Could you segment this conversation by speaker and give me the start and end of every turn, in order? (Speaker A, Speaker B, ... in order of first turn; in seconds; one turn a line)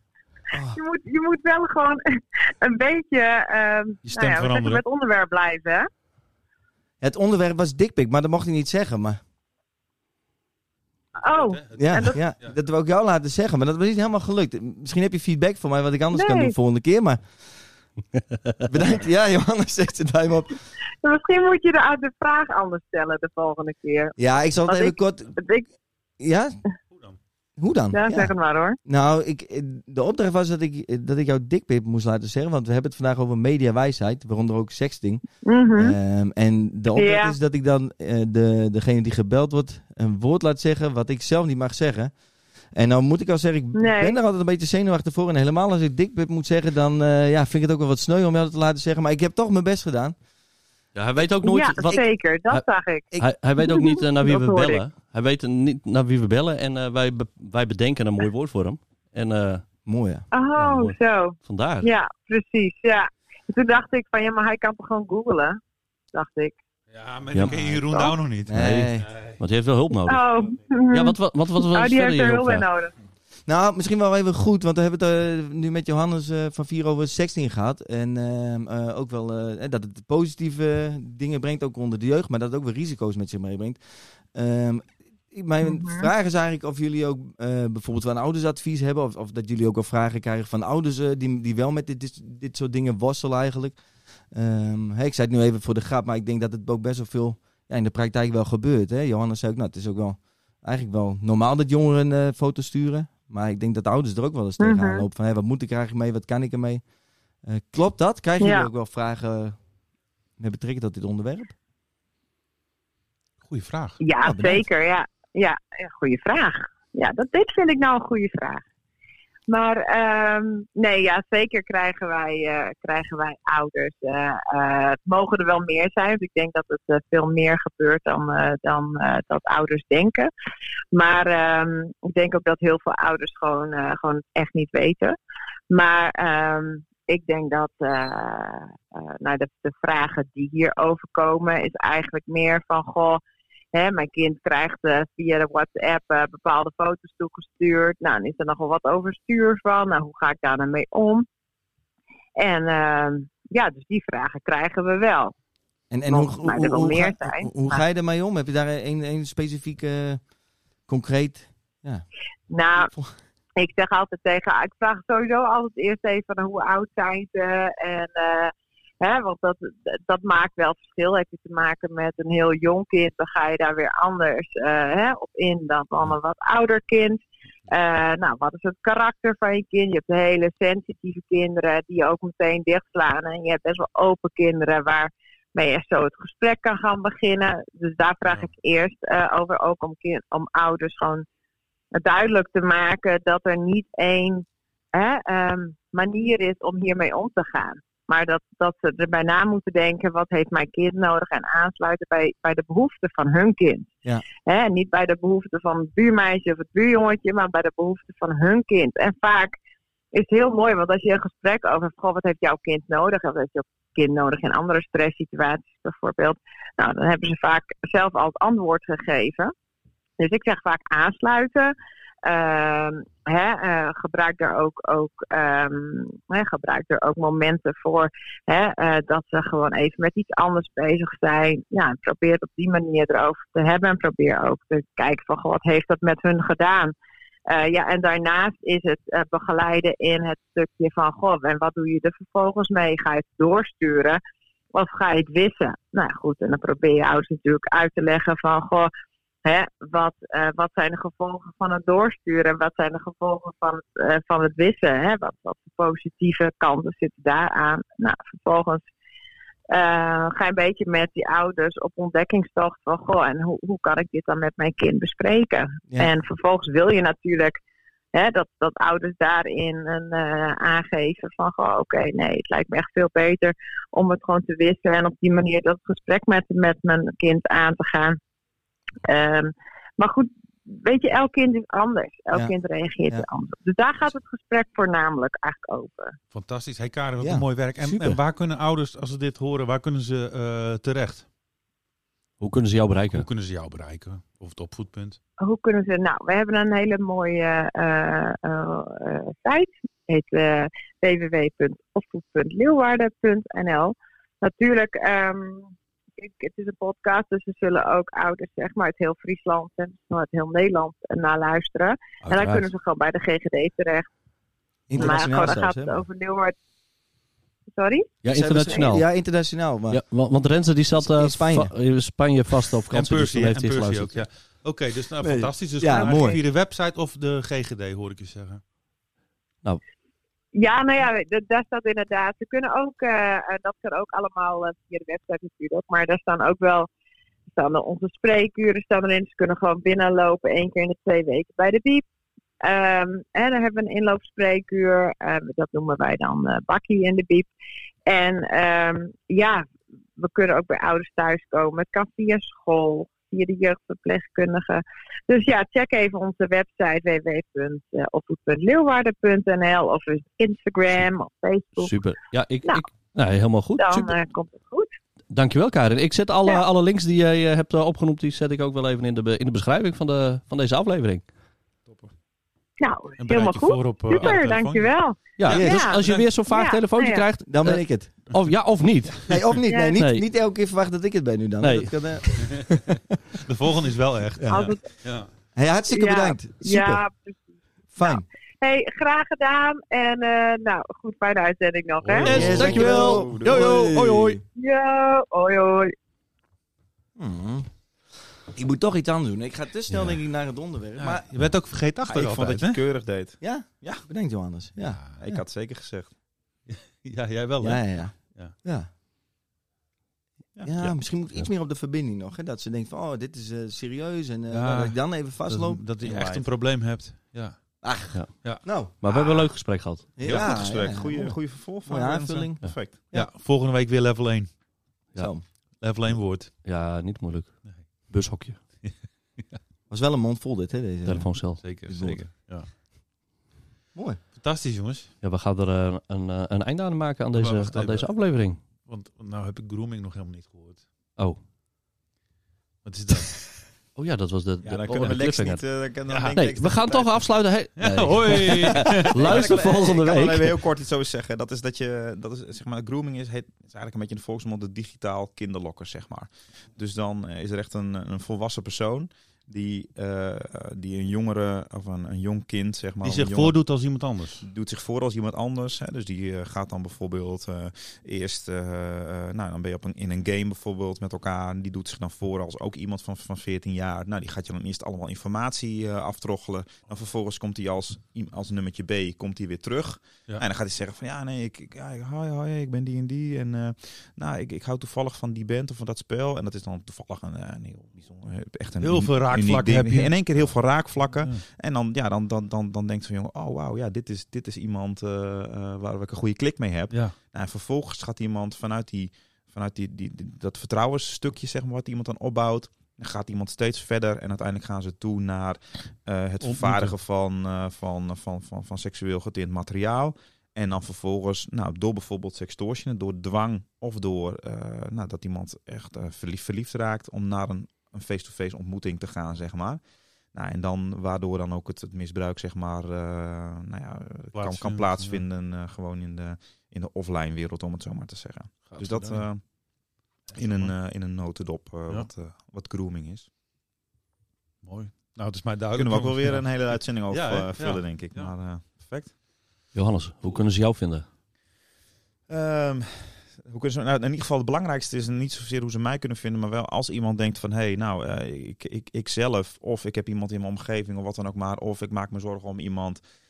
Speaker A: 0.5-0.8
Speaker B: 0.7-5.8
Speaker C: 4.0-4.8
Speaker A: 7.0-9.2
Speaker B: 11.2-12.2
Speaker C: 11.3-12.6
Speaker A: 11.7-17.7
Speaker B: 16.1-16.5
Speaker A: 18.6-20.6
Speaker B: 21.0-24.1
Speaker A: 24.2-25.4
Speaker B: 24.6-25.7
Speaker A: 26.2-26.6
Speaker C: 26.9-27.2
Speaker A: 27.6-35.2
Speaker B: 27.9-28.8
Speaker B: 35.4-36.0
Speaker A: 35.8-42.2
Speaker B: 36.9-37.3
Speaker A: 42.7-50.1
Speaker B: 43.7-44.2
Speaker D: 50.9-59.9
Speaker B: 51.4-54.8
Speaker A: 59.9-60.2
Speaker B: 60.3-65.6
Speaker D: 60.5-61.9
Speaker B: 66.1-66.6
Speaker C: 66.9-69.4
Speaker D: 67.3-67.6
Speaker A: 67.4-67.8
Speaker B: 67.8-68.2
Speaker A: 68.5-69.1
Speaker D: 68.5-70.2
Speaker B: 70.1-72.9
Speaker D: 70.9-72.7
Speaker A: 73.5-93.8
Speaker B: 85.6-86.1
Speaker A: 94.3-106.8
Speaker B: 104.6-105.0
Speaker A: 107.4-109.6
Speaker B: 108.4-108.7
Speaker A: 110.4-111.5
Speaker C: 113.4-114.0
Speaker B: 114.0-118.6
Speaker A: 114.2-114.7
Speaker B: 119.5-130.3
Speaker B: 130.9-135.2
Speaker B: 135.7-143.2
Speaker B: 143.7-151.2
Speaker B: 152.4-155.3
Speaker A: 155.9-160.3
Speaker B: 156.1-157.8
Speaker A: 160.8-162.1
Speaker B: 162.5-162.9
Speaker A: 162.8-163.1
Speaker B: 163.6-191.2
Speaker B: 191.9-203.9
Speaker B: 204.4-209.6
Speaker B: 210.1-219.5
Speaker B: 220.2-236.9
Speaker B: 237.5-244.2
Speaker B: 244.7-248.9
Speaker B: 249.4-258.9
Speaker B: 259.7-267.6
Speaker B: 268.1-278.2
Speaker B: 279.0-286.2
Speaker C: 286.3-291.2
Speaker A: 287.2-288.2
Speaker D: 292.4-293.2
Speaker C: 293.1-295.2
Speaker B: 295.4-314.1
Speaker D: 312.2-312.7
Speaker A: 314.9-316.0
Speaker B: 314.9-316.6
Speaker B: 317.7-318.1
Speaker D: 318.2-319.1
Speaker A: 318.2-320.0
Speaker D: 319.9-324.2
Speaker A: 320.9-321.7
Speaker C: 322.9-328.6
Speaker A: 325.2-326.4
Speaker B: 325.9-326.4
Speaker B: 330.5-336.9
Speaker B: 337.5-342.0
Speaker B: 342.6-347.5
Speaker B: 348.1-349.6
Speaker B: 350.2-361.9
Speaker D: 361.8-364.2
Speaker B: 363.8-364.9
Speaker D: 365.3-371.3
Speaker B: 372.8-377.3
Speaker C: 373.2-376.3
Speaker D: 375.4-380.2
Speaker A: 375.5-375.8
Speaker A: 377.4-378.1
Speaker A: 379.3-383.0
Speaker B: 379.7-380.0
Speaker D: 381.6-382.0
Speaker C: 383.4-385.3
Speaker B: 384.5-384.9
Speaker A: 385.5-387.0
Speaker B: 385.9-387.4
Speaker A: 387.9-388.2
Speaker B: 388.0-392.6
Speaker C: 392.0-392.9
Speaker D: 392.2-394.4
Speaker A: 392.2-394.4
Speaker E: 392.2-393.7
Speaker B: 394.5-395.9
Speaker A: 397.1-397.7
Speaker A: 398.5-401.2
Speaker D: 399.9-400.1
Speaker C: 401.0-402.8
Speaker E: 402.0-404.1
Speaker A: 403.4-405.4
Speaker C: 404.8-405.2
Speaker E: 405.2-406.1
Speaker C: 406.7-408.5
Speaker A: 407.6-408.9
Speaker A: 410.6-415.8
Speaker C: 414.5-417.8
Speaker E: 416.0-416.5
Speaker A: 417.8-419.5
Speaker D: 418.1-420.1
Speaker A: 420.1-423.3
Speaker E: 420.2-423.0
Speaker C: 423.1-424.6
Speaker D: 425.1-425.8
Speaker A: 425.2-425.4
Speaker C: 425.5-426.6
Speaker D: 426.6-428.8
Speaker A: 429.9-432.3
Speaker D: 431.0-431.6
Speaker C: 431.6-432.7
Speaker A: 433.9-434.2
Speaker C: 434.3-435.1
Speaker D: 435.2-438.6
Speaker C: 437.3-440.9
Speaker C: 442.8-443.5
Speaker D: 443.9-445.6
Speaker E: 444.6-447.2
Speaker C: 446.1-446.3
Speaker D: 446.2-450.6
Speaker C: 447.8-449.3
Speaker A: 447.8-449.5
Speaker E: 448.9-463.6
Speaker C: 463.0-464.4
Speaker E: 464.4-519.8
Speaker C: 488.8-490.4
Speaker C: 506.4-506.9
Speaker E: 520.3-529.5
Speaker C: 524.3-525.2
Speaker C: 528.7-529.2
Speaker C: 530.3-530.7
Speaker E: 530.3-533.3
Speaker C: 534.6-538.3
Speaker E: 535.7-539.1
Speaker D: 539.7-541.1
Speaker E: 542.3-553.0